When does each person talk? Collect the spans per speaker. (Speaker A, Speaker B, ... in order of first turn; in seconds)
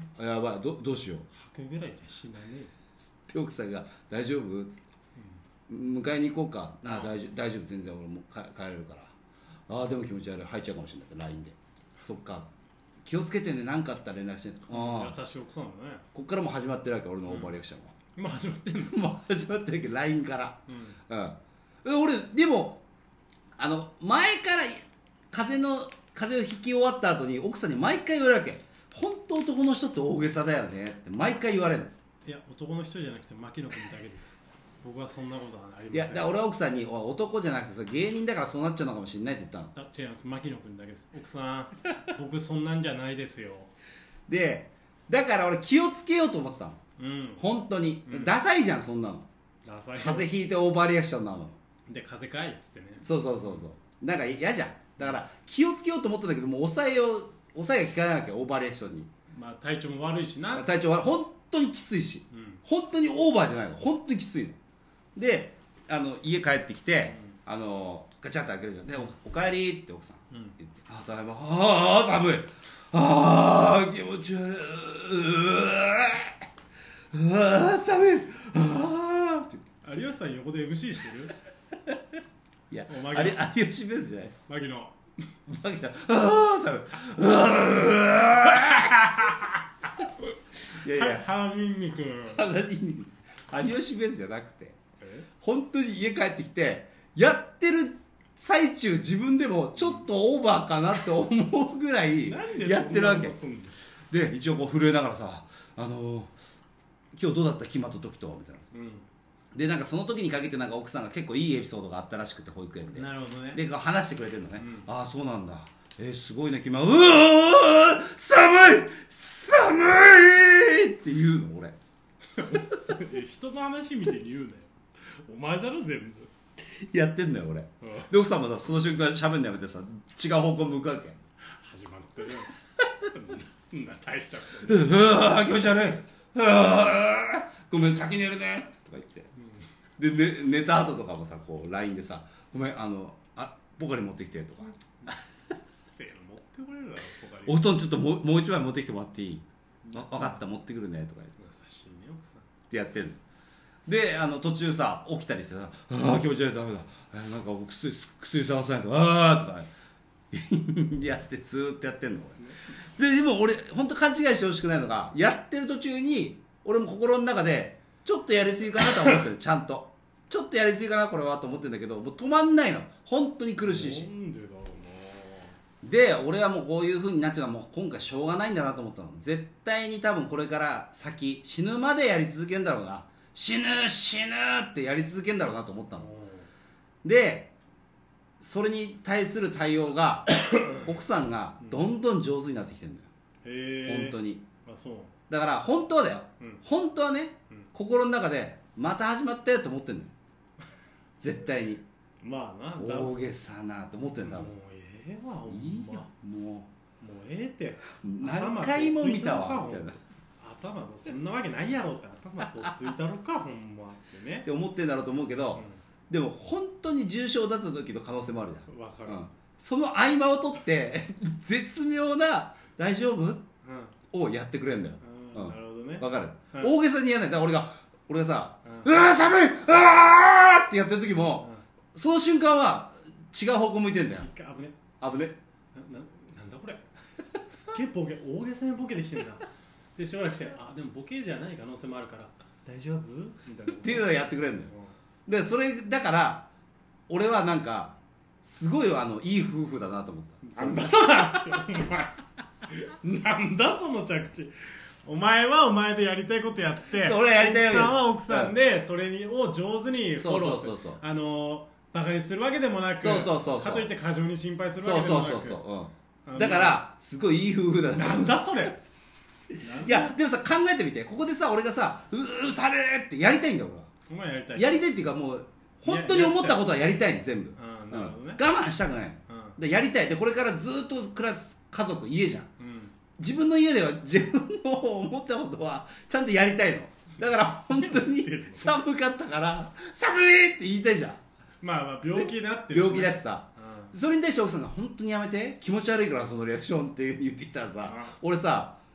Speaker A: 0.2-1.3, 3.3-4.8, 5.7-9.1, 9.7-12.5, 13.1-15.2, 16.1-17.9, 18.9-22.8, 23.6-31.9, 35.9-39.7, 44.3-46.8, 47.4-49.3, 50.0-51.6, 53.0-59.1, 60.5-64.6, 65.2-76.5, 77.1-79.6, 82.7-84.4, 85.5-89.5, 90.7-91.3, 92.3-94.8, 95.4-103.4, 104.1-106.3, 107.2-108.7, 109.5-121.8, 126.6-131.2, 134.6-139.3, 140.0-144.8, 147.5-151.3, 152.7-153.2, 153.9-159.7, 160.3-174.1, 175.8-186.1, 187.0-187.5, 188.4-193.1, 193.8-194.4, 195.3-200.1, 201.2-201.8, 202.8-204.5, 205.5-206.7, 208.0-210.0, 214.4-223.4, 224.1-234.3, 235.0-235.4, 243.8-244.7, 245.3-246.5, 247.1-251.6, 257.0-258.5, 260.2-261.0, 263.0-263.9, 264.8-268.4, 269.5-273.9, 274.6-282.5, 283.2-291.2, 292.1-298.8
Speaker B: 1.3-2.7, 5.2-5.4, 14.7-16.0, 17.3-17.5, 18.2-19.1, 20.7-21.0, 32.2-36.3, 39.7-43.7, 47.0-47.5, 48.1-48.3, 49.6-50.3, 51.9-53.6, 59.3-60.7, 62.3-62.6, 67.1-67.4, 70.3-70.6, 79.8-81.3, 82.9-83.4, 84.4-85.0, 88.8-89.1, 90.8-92.5, 95.0-95.3, 102.2-103.8, 108.7-109.1, 112.9-113.6, 114.6-114.9, 122.4-126.3, 127.8-128.1, 131.5-135.0, 139.3-139.6, 145.0-147.7, 149.8-150.5, 151.4-152.5, 173.6-175.6, 185.9-186.5, 191.6-191.9, 193.4-195.1, 202.2-203.2, 204.2-206.1, 207.0-214.5, 218.7-219.2, 223.6-223.9, 225.0-226.7, 228.7-229.0, 234.2-234.8, 235.7-236.8, 237.5-244.9, 250.4-265.6, 266.3-266.8, 267.9-268.8, 269.6-270.2, 274.1-274.8, 275.9-276.7, 277.6-278.4, 279.3-279.6, 282.6-282.9, 287.7-288.8, 291.6-293.9, 297.8-298.2